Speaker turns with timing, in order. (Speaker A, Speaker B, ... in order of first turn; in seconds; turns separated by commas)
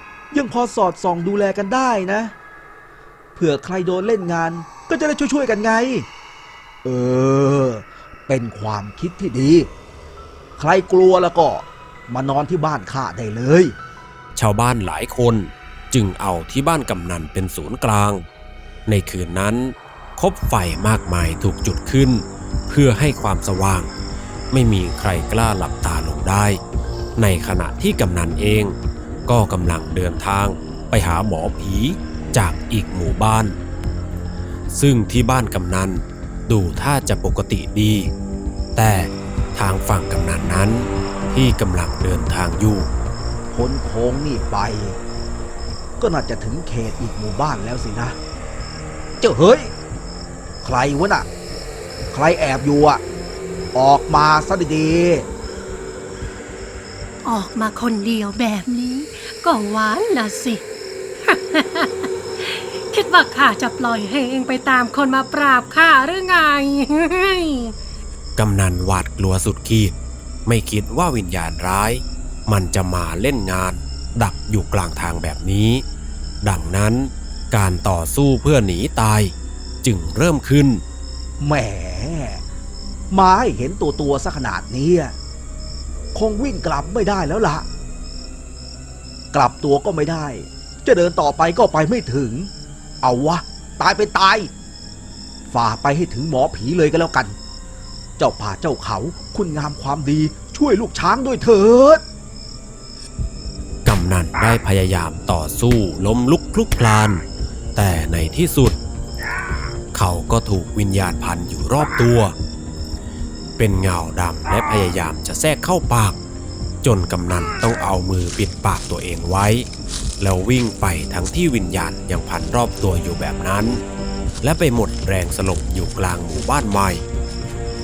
Speaker A: 0.3-2.3, Speaker A: 3.3-6.1, Speaker A: 6.8-9.7, Speaker A: 10.6-13.7, Speaker B: 14.3-18.2, Speaker B: 18.9-23.9, Speaker B: 24.5-26.6, Speaker B: 27.2-33.6, Speaker B: 34.7-38.1, Speaker B: 38.8-42.9, Speaker A: 43.5-45.0, Speaker A: 46.0-48.2, Speaker A: 49.2-49.7, Speaker A: 50.6-51.3, Speaker A: 52.1-53.0, Speaker A: 53.8-55.2, Speaker C: 57.2-60.6, Speaker C: 61.2-67.7, Speaker B: 68.3-69.9, Speaker B: 70.5-75.8, Speaker B: 76.4-80.8, Speaker A: 81.4-82.4, Speaker A: 83.1-85.1, Speaker A: 86.1-87.6, Speaker A: 89.3-92.5, Speaker A: 93.0-94.5, Speaker A: 95.5-97.4, Speaker A: 98.2-102.0, Speaker B: 103.8-107.2, Speaker B: 107.8-108.8, Speaker B: 109.9-112.3, Speaker B: 113.6-116.2, Speaker B: 116.8-119.7, Speaker B: 120.2-123.8, Speaker B: 124.4-127.0